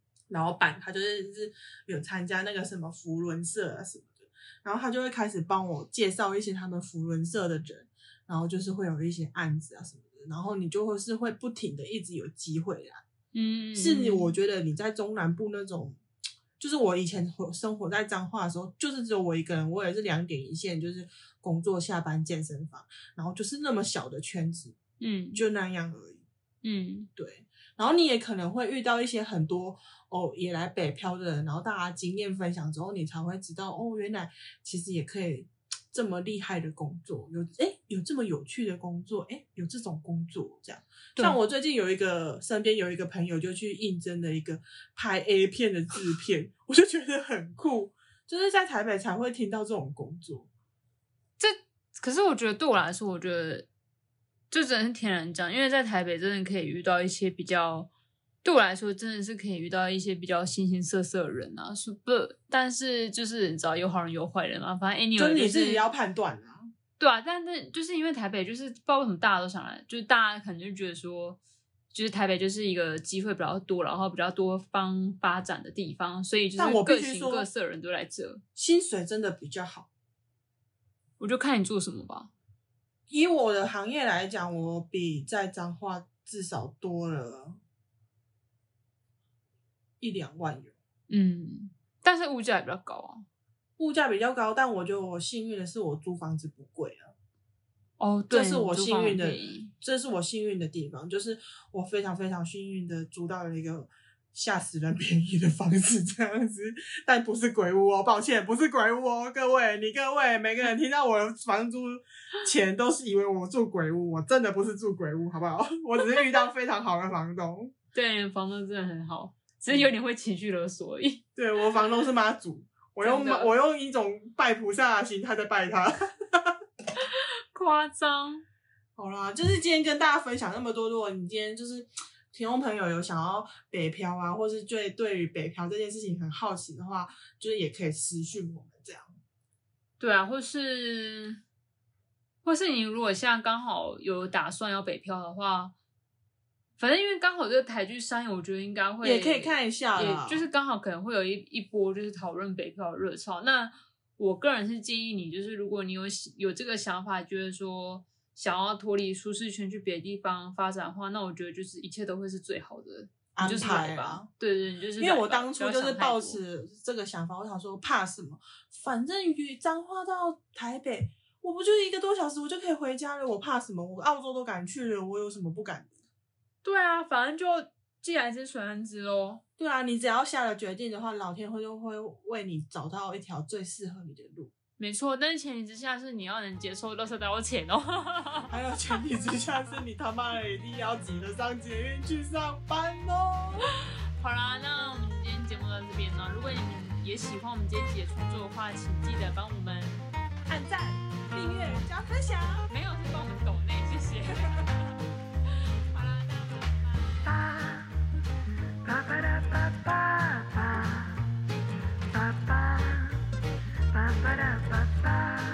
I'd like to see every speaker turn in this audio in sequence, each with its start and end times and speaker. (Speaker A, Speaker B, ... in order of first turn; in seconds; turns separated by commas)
Speaker A: 0.3-13.0, Speaker B: 13.3-14.3, Speaker A: 13.8-16.0, Speaker A: 16.6-24.8, Speaker B: 25.0-25.4, Speaker A: 25.4-26.2, Speaker B: 26.6-27.1, Speaker A: 27.2-50.5, Speaker B: 51.4-53.7, Speaker B: 54.5-57.9, Speaker B: 58.4-65.8, Speaker A: 65.2-66.7, Speaker B: 67.0-71.4, Speaker B: 71.9-78.4, Speaker A: 76.6-77.5, Speaker A: 78.6-79.9, Speaker B: 81.2-82.3, Speaker A: 83.1-87.6, Speaker A: 90.0-90.8, Speaker B: 91.1-93.3, Speaker A: 93.8-97.1, Speaker B: 98.0-99.7, Speaker A: 98.3-117.7, Speaker B: 117.9-121.2, Speaker A: 121.4-126.6, Speaker B: 123.0-123.5, Speaker B: 127.0-128.4, Speaker A: 129.0-139.2, Speaker B: 140.0-141.4, Speaker B: 142.4-145.7, Speaker B: 146.8-166.4, Speaker A: 149.0-150.5, Speaker A: 163.3-164.3, Speaker A: 165.0-175.9, Speaker B: 176.6-179.4, Speaker A: 179.6-184.5, Speaker B: 184.8-188.5, Speaker A: 188.5-193.7, Speaker B: 194.2-200.1, Speaker A: 200.5-202.7, Speaker B: 202.7-204.9, Speaker B: 205.5-207.4, Speaker A: 209.0-211.0